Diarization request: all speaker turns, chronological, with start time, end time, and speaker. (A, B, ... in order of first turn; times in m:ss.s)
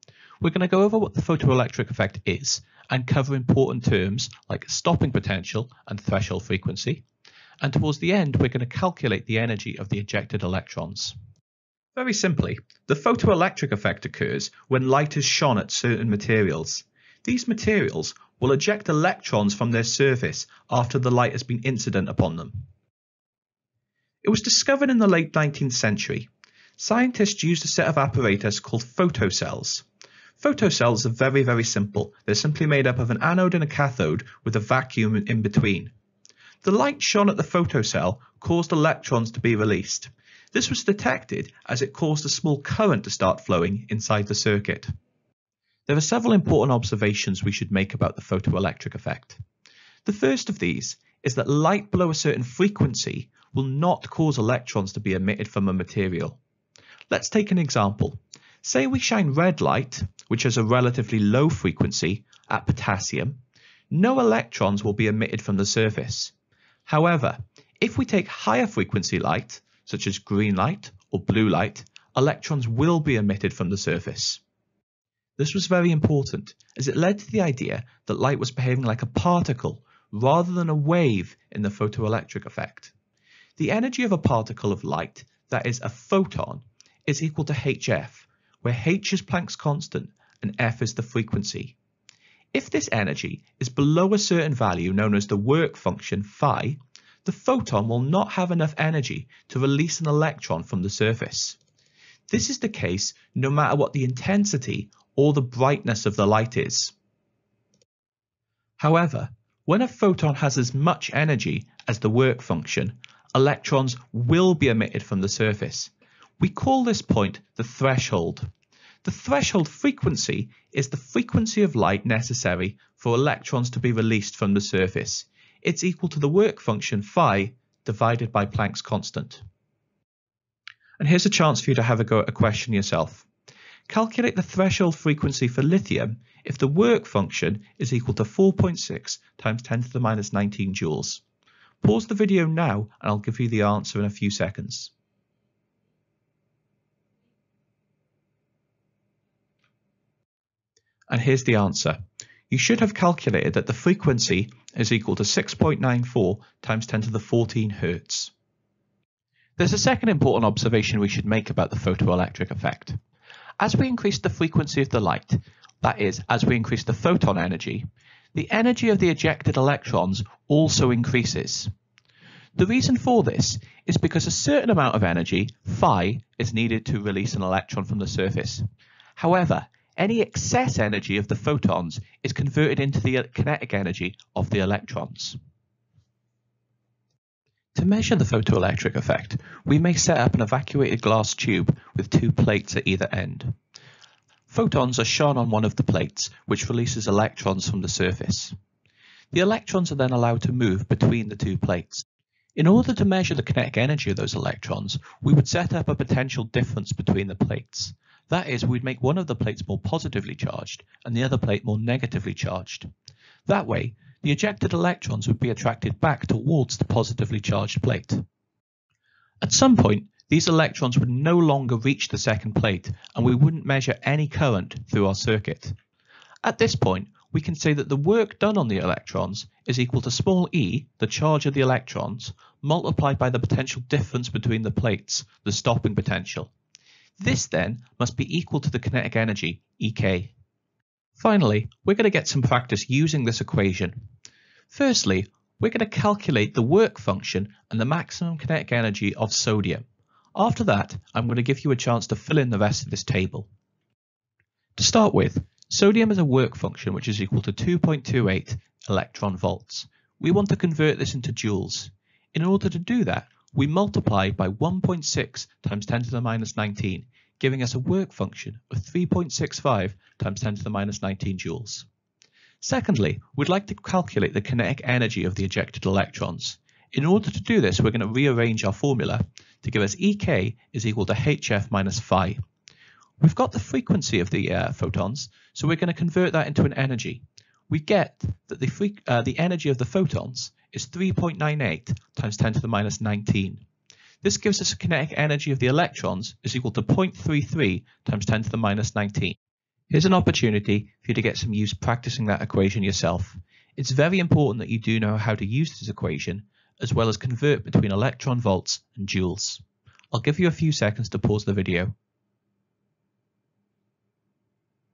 0:00.4-0:07.0 A
0:07.6-0:11.1 A
0:12.0-0:22.6 A
0:24.2-0:29.8 A
0:30.4-0:35.9 A
0:36.6-0:44.9 A
0:45.9-0:49.4 A
0:50.0-0:56.4 A
0:57.1-1:03.4 A
1:03.9-1:06.3 A
1:06.8-1:14.4 A
1:15.4-1:22.9 A
1:23.6-1:31.8 A
1:32.5-1:41.6 A
1:42.3-1:46.9 A
1:48.8-1:58.5 A
1:59.0-2:09.4 A
2:11.0-2:13.3 A
2:13.9-2:21.2 A
2:21.8-2:24.9 A
2:31.1-2:32.0 A
2:32.5-2:38.3 A
2:39.6-2:43.0 A
2:43.6-2:51.7 A
2:52.6-2:58.6 A
2:59.2-3:05.4 A
3:07.7-3:13.5 A
3:14.5-3:18.5 A
3:19.3-3:22.0 A
3:22.6-3:32.9 A
3:33.5-3:38.2 A
3:39.4-3:45.8 A
3:46.4-3:56.5 A
3:57.2-4:00.3 A
4:01.2-4:04.0 A
4:04.7-4:13.5 A
4:14.8-4:31.9 A
4:32.6-4:42.4 A
4:43.2-4:53.6 A
4:54.2-4:59.4 A
4:59.9-5:11.9 A